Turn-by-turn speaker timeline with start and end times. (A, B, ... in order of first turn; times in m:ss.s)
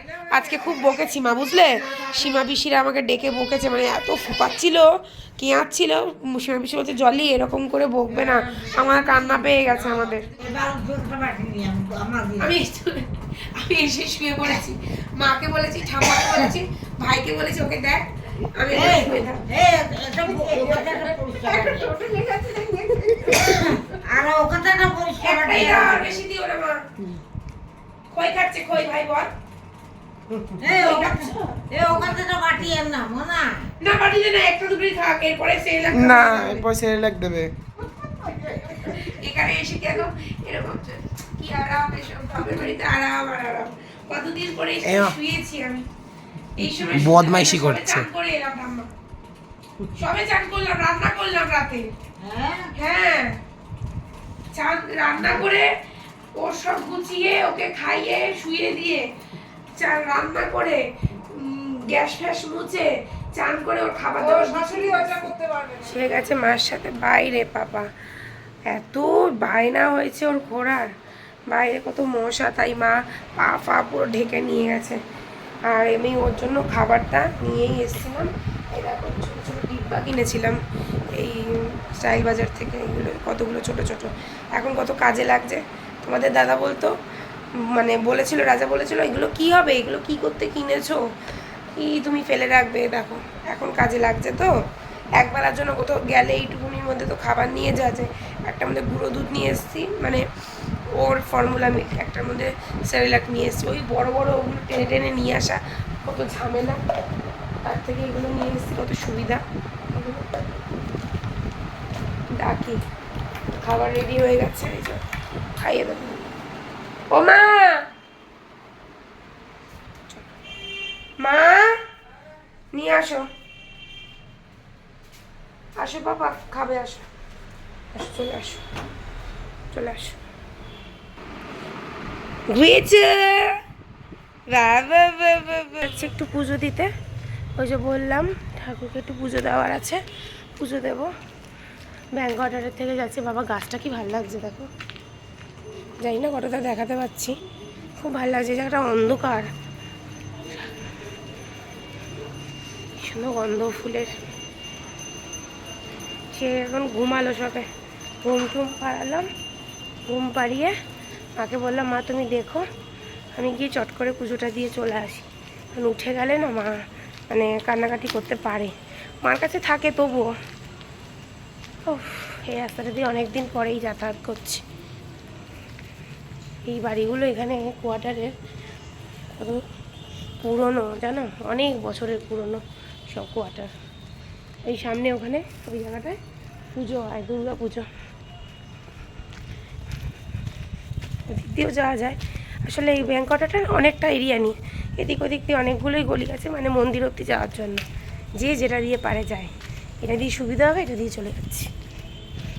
0:00.2-0:10.3 A
0:08.3-0:09.4 B
0:10.4-0:12.5 B
0:12.4-0:19.5 A
0:18.7-0:21.9 B
0:20.5-0:23.8 A
0:23.3-0:26.2 B
0:25.2-0:26.8 A
0:28.1-0:29.3 A
0:30.6-0:33.7 B
0:30.7-0:31.6 A
0:33.8-0:36.7 A
0:35.9-0:37.5 C
0:38.2-0:45.9 A
0:44.8-0:45.2 C
0:46.6-0:48.9 A
0:46.9-0:48.1 C
0:49.9-0:51.9 A
0:52.2-0:52.7 B
0:52.7-0:53.4 A
0:54.5-0:55.8 A
0:56.4-0:59.1 A
0:59.8-1:07.9 A
1:08.7-1:10.9 A
1:11.5-1:15.0 A
1:15.7-1:27.0 A
1:27.6-1:31.0 A
1:31.7-1:34.6 A
1:35.2-1:40.2 A
1:40.9-1:46.8 A
1:47.6-1:50.3 A
1:52.4-1:52.8 A
1:53.5-1:55.0 A
1:55.6-1:56.2 A
1:57.1-1:57.9 A
2:00.1-2:00.3 A
2:01.2-2:01.8 A
2:02.7-2:03.3 A
2:05.8-2:07.1 A
2:07.9-2:08.6 A
2:09.7-2:10.2 A
2:12.5-2:13.6 A
2:14.5-2:16.9 A
2:17.6-2:20.0 A
2:20.6-2:21.1 A
2:22.2-2:24.7 A
2:26.0-2:27.4 A
2:28.0-2:29.5 A
2:32.9-2:34.2 A
2:36.3-2:37.7 A
2:38.2-2:39.3 A
2:40.1-2:40.8 A
2:41.4-2:42.7 A
2:43.3-2:50.4 A
2:51.8-2:54.6 A
2:56.6-2:58.3 A
2:59.3-2:59.7 A
3:00.4-3:03.7 A
3:04.6-3:06.2 A
3:06.7-3:07.9 A
3:11.3-3:17.9 A
3:18.4-3:21.7 A